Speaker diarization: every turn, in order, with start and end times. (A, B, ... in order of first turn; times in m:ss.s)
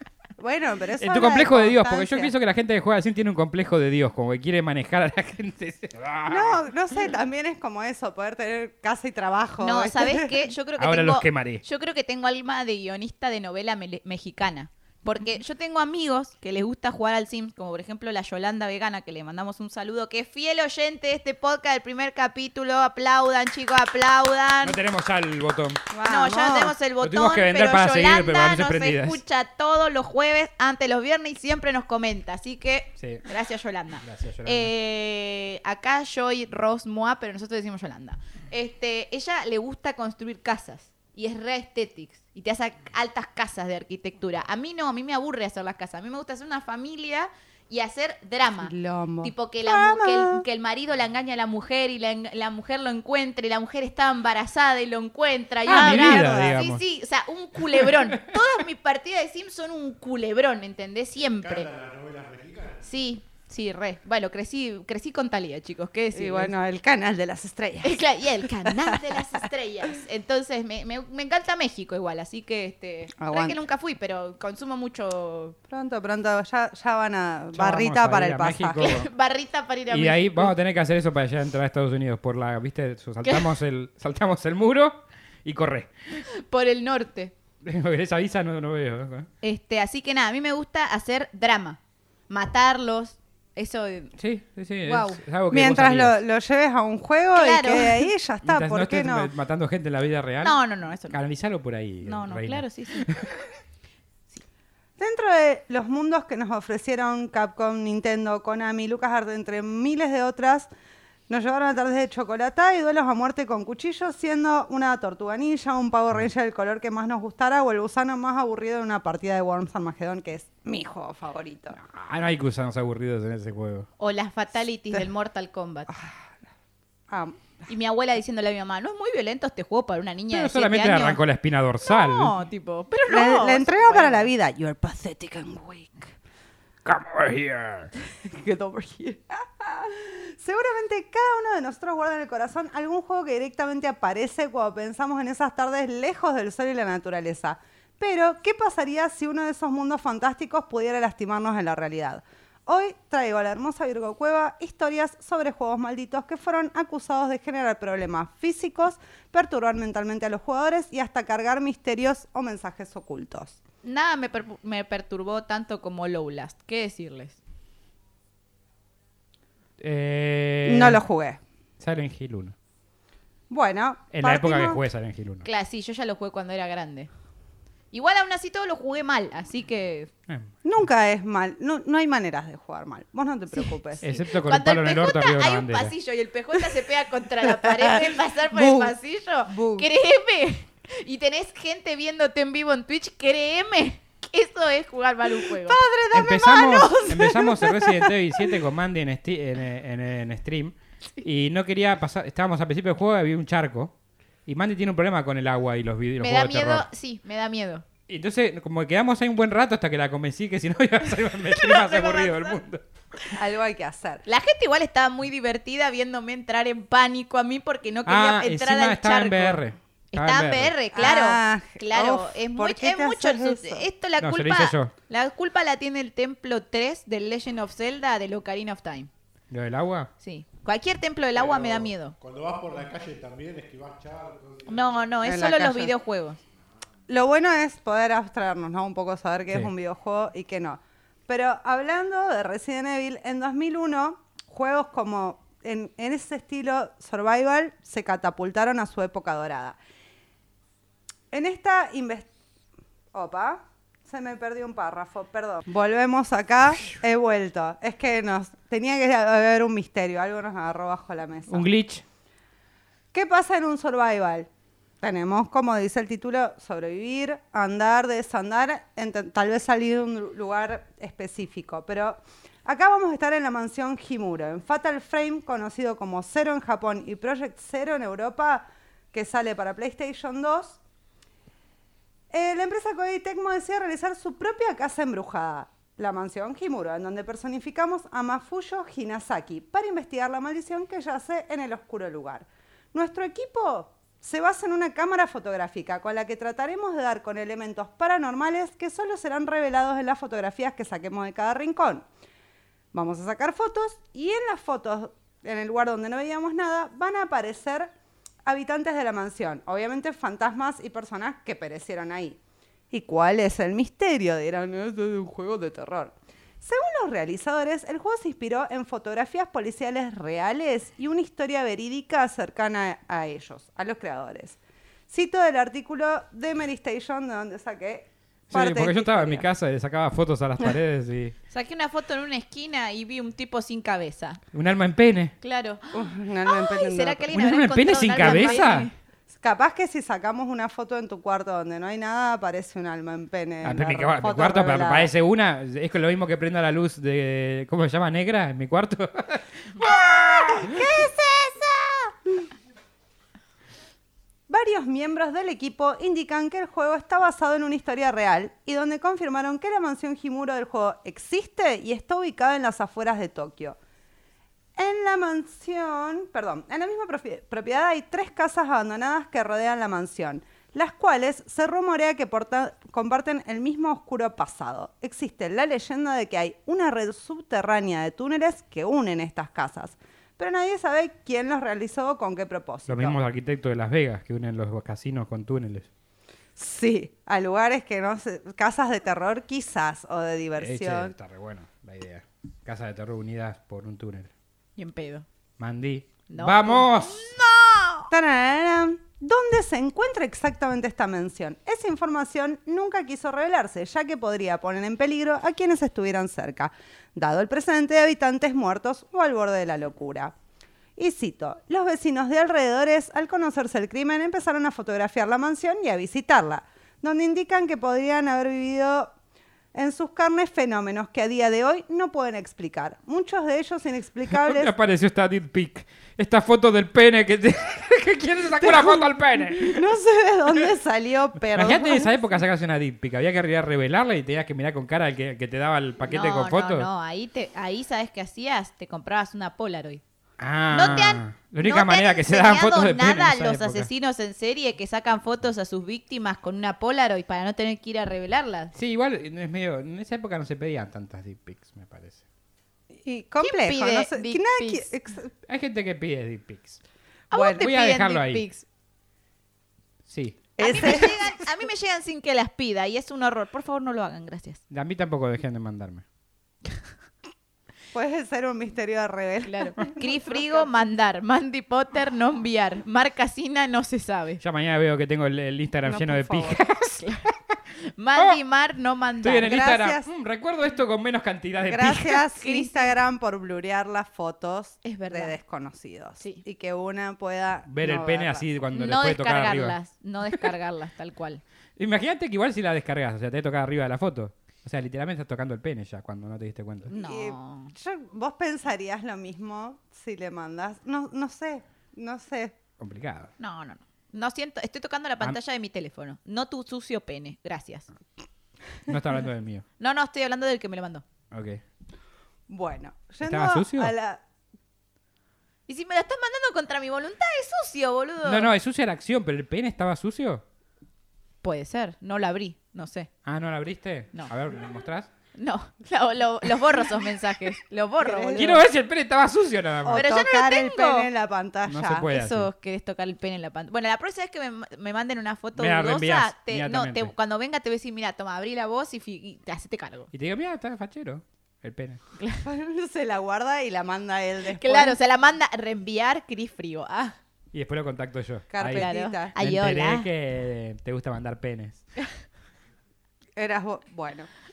0:00.4-0:02.3 A
0:01.0-0:06.6 B
0:06.3-0:10.4 A
0:09.6-0:24.8 C
0:10.8-0:11.6 B
0:24.6-0:25.8 B
0:25.9-0:26.8 A
0:26.0-1:01.7 C
0:27.0-0:29.2 B
0:34.0-0:34.7 B
0:48.6-0:50.4 A
0:55.7-0:56.8 B
0:55.7-0:56.6 A
0:57.6-0:58.4 B
1:01.4-1:02.9 D
1:02.8-1:06.6 C
1:06.1-1:09.2 A
1:07.8-1:15.6 C
1:13.2-1:13.6 A
1:15.7-1:19.0 A
1:17.5-1:19.1 B
1:18.8-1:20.5 C
1:19.9-1:25.9 B
1:23.2-1:23.5 C
1:26.2-1:27.4 C
1:27.6-1:29.3 B
1:29.4-1:31.8 C
1:32.3-1:34.1 C
1:34.2-1:36.2 B
1:34.9-1:35.2 C
1:35.5-1:39.3 A
1:37.3-1:38.1 C
1:38.4-1:40.6 B
1:40.4-1:41.2 C
1:41.1-1:43.5 B
1:42.0-1:43.1 C
1:45.0-1:50.7 A
1:51.3-2:01.8 A
2:01.8-2:03.9 B
2:04.0-2:05.9 C
2:05.9-2:06.3 A
2:07.1-2:07.4 A
2:07.7-2:11.2 C
2:10.3-2:12.4 B
2:11.8-2:14.3 C
2:13.1-2:16.1 A
2:16.8-2:17.9 B
2:18.2-2:43.6 A
2:43.8-2:47.4 C
2:49.8-2:51.0 B
2:50.6-2:51.4 A
2:51.8-2:52.5 B
2:53.5-2:54.8 A
2:54.1-2:55.5 B
2:55.4-2:57.1 C
2:57.9-3:00.1 C
3:00.6-3:04.1 A
3:03.6-3:15.8 C
3:04.0-3:05.9 B
3:07.4-3:09.0 A
3:09.5-3:09.9 A
3:15.3-3:18.6 A
3:16.1-3:23.9 B
3:24.5-3:26.8 B
3:26.2-3:27.8 C
3:28.1-3:32.8 B
3:31.5-3:32.6 C
3:33.3-3:34.2 A
3:34.3-3:49.1 C
3:38.1-3:40.8 B
3:40.9-3:43.9 A
3:44.2-3:44.9 B
3:49.5-3:50.1 B
3:50.2-3:52.2 C
3:51.4-3:55.0 D
3:54.7-3:56.4 C
3:55.2-3:55.9 A
3:57.1-4:09.8 A
4:11.3-4:12.3 A
4:13.1-4:21.7 A
4:21.5-4:22.0 B
4:23.1-4:24.5 A
4:25.0-4:40.8 A
4:42.3-5:02.1 A
5:02.9-5:07.9 A
5:08.5-5:12.4 A
5:12.9-5:24.6 A
5:25.1-5:29.5 A
5:28.5-5:31.4 B
5:31.5-5:34.4 C
5:34.5-5:35.3 B
5:35.4-5:38.9 C
5:35.9-5:37.3 A
5:37.3-5:38.9 B
5:38.2-5:38.6 A
5:39.3-5:45.1 A
5:43.6-5:49.9 B
5:49.8-5:52.5 A
5:54.5-6:03.8 A
6:04.8-6:23.2 A
6:22.9-6:25.9 B
6:26.6-6:31.1 A
6:30.6-6:34.3 B
6:34.8-6:35.3 C
6:35.6-6:37.3 B
6:36.3-6:38.1 C
6:38.1-6:50.3 A
6:51.0-6:59.1 A
6:59.7-7:04.7 A
7:04.3-7:09.9 B
7:08.6-7:12.3 A
7:11.6-7:16.9 B
7:16.1-7:20.0 C
7:20.4-7:23.9 B
7:20.7-7:28.7 C
7:28.8-7:32.2 B
7:32.9-7:35.3 A
7:33.4-7:34.9 C
7:35.5-7:36.8 B
7:37.3-7:38.6 C
7:37.3-7:37.6 A
7:37.4-7:38.4 B
7:40.1-7:40.5 B
7:40.6-7:41.2 A
7:40.6-7:44.6 C
7:44.7-7:46.0 B
7:47.9-7:50.7 A
7:49.4-7:54.4 C
7:54.4-7:57.3 B
7:55.8-7:56.6 A
7:58.0-7:59.6 C
7:59.2-8:02.2 B
7:59.4-8:00.1 A
8:01.6-8:08.5 A
8:02.4-8:02.9 C
8:04.8-8:05.4 C
8:06.2-8:06.4 C
8:07.7-8:09.8 B
8:08.7-8:11.4 C
8:11.8-8:16.9 B
8:16.9-8:17.7 C
8:16.9-8:22.6 A
8:22.8-8:23.3 B
8:23.4-8:27.9 C
8:28.9-8:29.6 B
8:29.8-8:31.0 C
8:31.3-8:31.6 B
8:32.5-8:34.2 A
8:33.2-8:33.9 B
8:35.7-8:38.5 C
8:38.2-8:40.4 B
8:41.4-8:43.1 C
8:43.2-8:45.1 B
8:45.4-8:48.6 C
8:48.0-8:48.6 A
8:48.4-8:50.1 B
8:49.8-8:52.1 A
8:50.0-8:51.1 C
8:51.7-8:52.5 B
8:52.1-9:00.1 C
8:55.6-8:57.1 B
9:00.1-9:02.0 B
9:02.2-9:02.4 C
9:02.4-9:05.0 A
9:04.6-9:07.2 C
9:07.5-9:11.8 B
9:08.5-9:09.4 A
9:08.8-9:10.1 C
9:13.4-9:14.3 A